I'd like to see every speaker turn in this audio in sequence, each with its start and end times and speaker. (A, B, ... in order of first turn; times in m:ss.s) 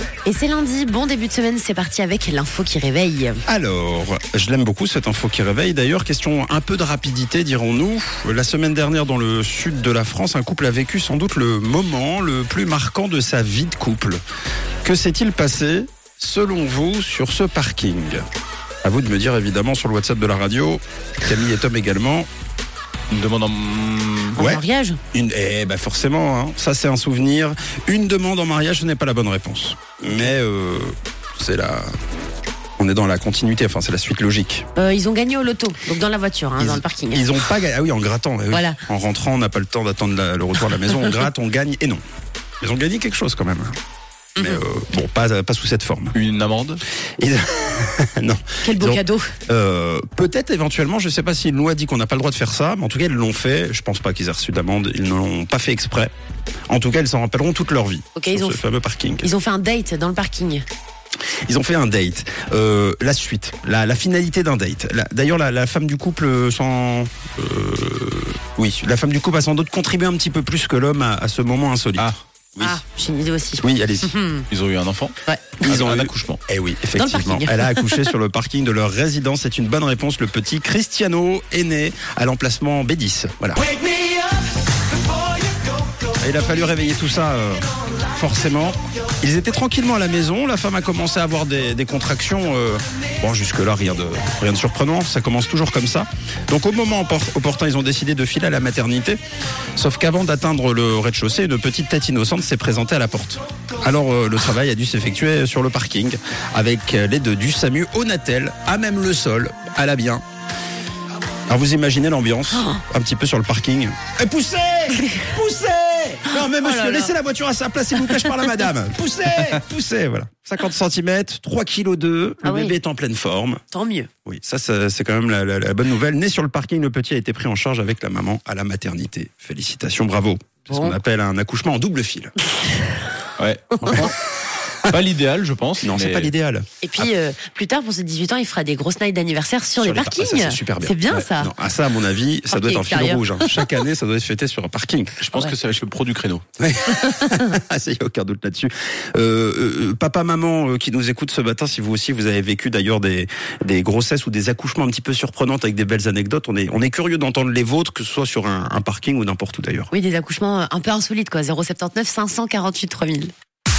0:00.2-0:03.4 A
0:03.5-0:14.2 B
0:14.8-0:18.2 B
0:18.8-0:22.3 B
0:23.1-0:24.4 C
0:24.3-0:25.0 A
0:24.4-0:31.9 B
0:32.8-0:34.7 B
0:34.8-0:37.4 A
0:36.6-0:42.0 B
0:38.5-0:38.8 A
0:42.6-0:43.8 B
0:44.4-0:46.2 B
0:46.2-0:46.8 C
0:47.2-0:56.1 B
0:48.6-0:49.3 A
0:56.7-0:59.3 B
0:58.2-0:58.6 A
0:59.2-1:00.6 A
1:01.5-1:12.8 B
1:12.6-1:14.5 A
1:13.6-1:14.2 B
1:14.5-1:16.4 C
1:15.6-1:23.7 B
1:17.0-1:18.1 A
1:26.2-1:39.2 B
1:39.8-1:50.2 B
1:51.5-2:03.6 B
1:56.6-1:57.1 A
2:02.4-2:02.8 A
2:03.7-2:04.1 A
2:04.2-2:12.3 B
2:10.7-2:11.0 A
2:13.4-2:14.1 C
2:13.8-2:14.1 B
2:14.8-2:16.3 C
2:15.8-2:17.1 B
2:16.8-2:21.5 A
2:19.8-2:25.2 B
2:22.5-2:23.7 A
2:25.2-2:26.4 C
2:26.6-2:39.9 B
2:39.9-2:43.3 A